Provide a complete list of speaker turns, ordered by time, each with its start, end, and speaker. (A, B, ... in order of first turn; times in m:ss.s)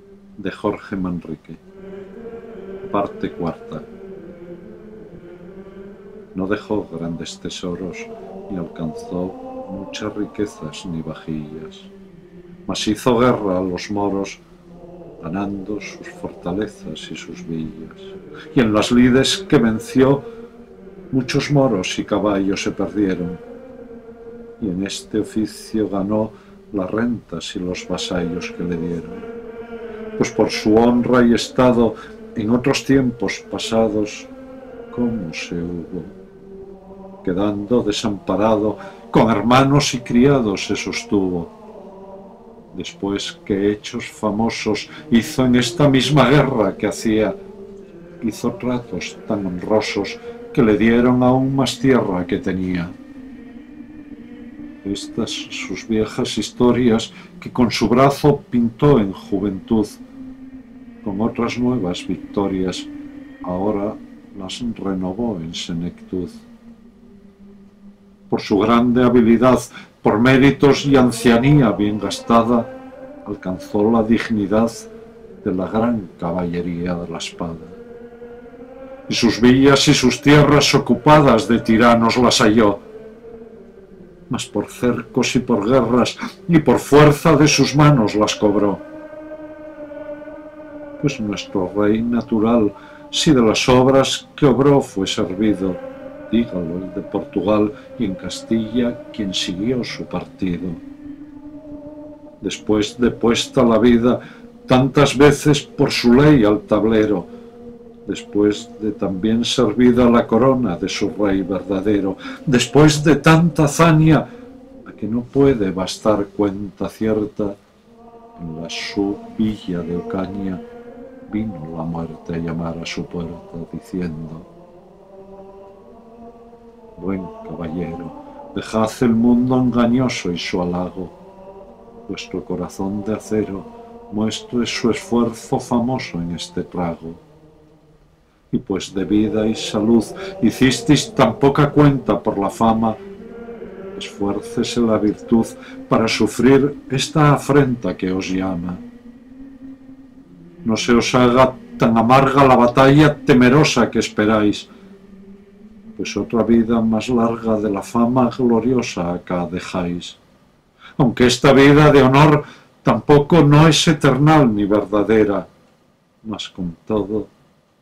0:00.4-0:01.6 A
0:02.8-0:03.8 A
0:06.3-0:11.9 A
0:12.7-0:14.4 A
0:15.2-0:20.2 A
0:21.1-0:23.4 A
0:24.6-0:29.2 A
0:30.2-0:34.3 A
0:34.9-0:36.1 A
0:37.2-0:41.5 A
0:42.7-0:47.4 A
0:48.2-0:52.9 A
0:54.8-1:00.0 A
1:01.0-1:02.9 A
1:03.4-1:06.4 A
1:08.3-1:12.7 A
1:13.2-1:14.9 A
1:15.4-1:17.8 A
1:19.1-1:22.8 A
1:24.3-1:28.8 A
1:31.0-1:40.8 A
1:42.4-1:47.3 A
1:48.0-1:54.2 A
1:54.8-1:57.6 A
1:58.4-2:00.6 A
2:01.3-2:04.5 A
2:07.0-2:11.1 A
2:12.1-2:17.2 A
2:18.5-2:23.0 A
2:24.0-2:28.8 A
2:30.6-2:34.7 A
2:36.0-2:40.2 A
2:41.0-2:45.5 A
2:46.2-2:47.3 A